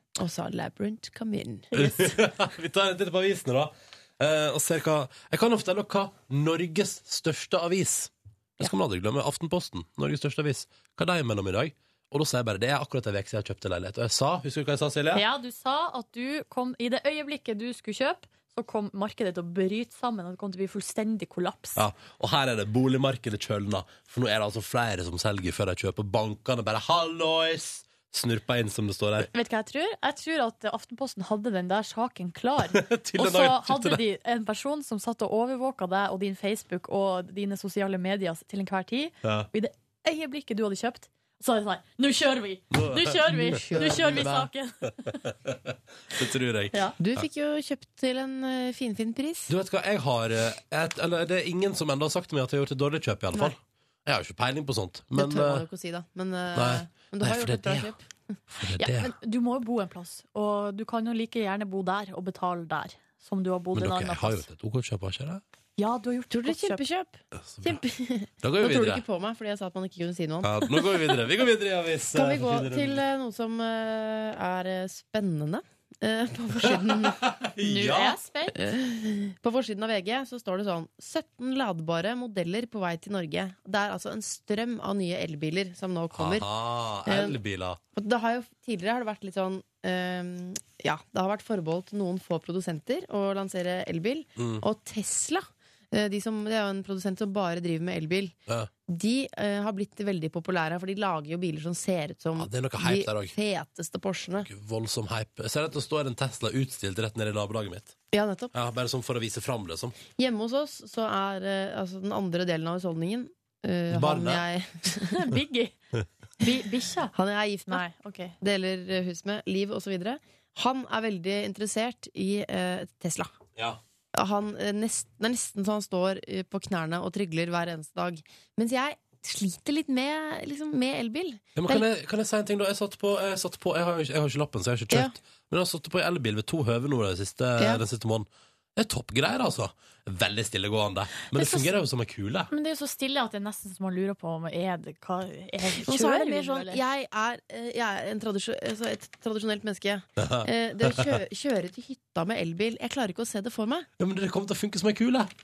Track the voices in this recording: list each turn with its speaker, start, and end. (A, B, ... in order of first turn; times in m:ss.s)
0:00.2-0:02.1 A
0:01.7-0:15.2 B
0:15.1-0:21.8 C
0:21.8-0:29.3 B
0:29.3-0:45.2 C
0:32.7-0:34.0 B
0:42.7-0:44.5 B
0:43.4-0:44.3 A
0:45.4-0:47.2 B
0:47.0-0:49.5 A
0:49.5-0:55.6 B
0:55.1-0:58.1 A
0:56.6-0:57.9 B
0:58.5-0:59.1 B
0:58.8-1:04.5 C
1:03.7-1:05.4 B
1:05.8-1:06.8 C
1:06.3-1:11.2 A
1:07.5-1:07.8 B
1:08.4-1:09.0 B
1:10.4-1:13.0 B
1:12.1-1:17.2 A
1:16.7-1:18.2 B
1:17.6-1:18.6 C
1:18.6-1:26.5 A
1:26.2-1:27.8 B
1:27.1-1:27.4 A
1:28.0-1:38.4 A
1:34.4-1:34.6 B
1:38.9-1:44.5 A
1:42.4-1:43.4 B
1:44.4-1:48.0 B
1:48.1-1:48.5 A
1:48.5-1:50.0 B
1:50.2-1:55.2 A
1:53.9-1:54.4 B
1:55.0-1:55.8 C
1:56.4-1:57.1 C
1:57.1-1:57.8 A
1:57.7-1:58.4 C
1:58.4-2:03.3 A
2:04.1-2:11.8 A
2:11.6-2:22.5 B
2:14.9-2:15.2 A
2:21.3-2:21.7 C
2:22.5-2:26.8 C
2:25.8-2:33.9 A
2:30.2-2:31.2 B
2:34.0-2:35.3 B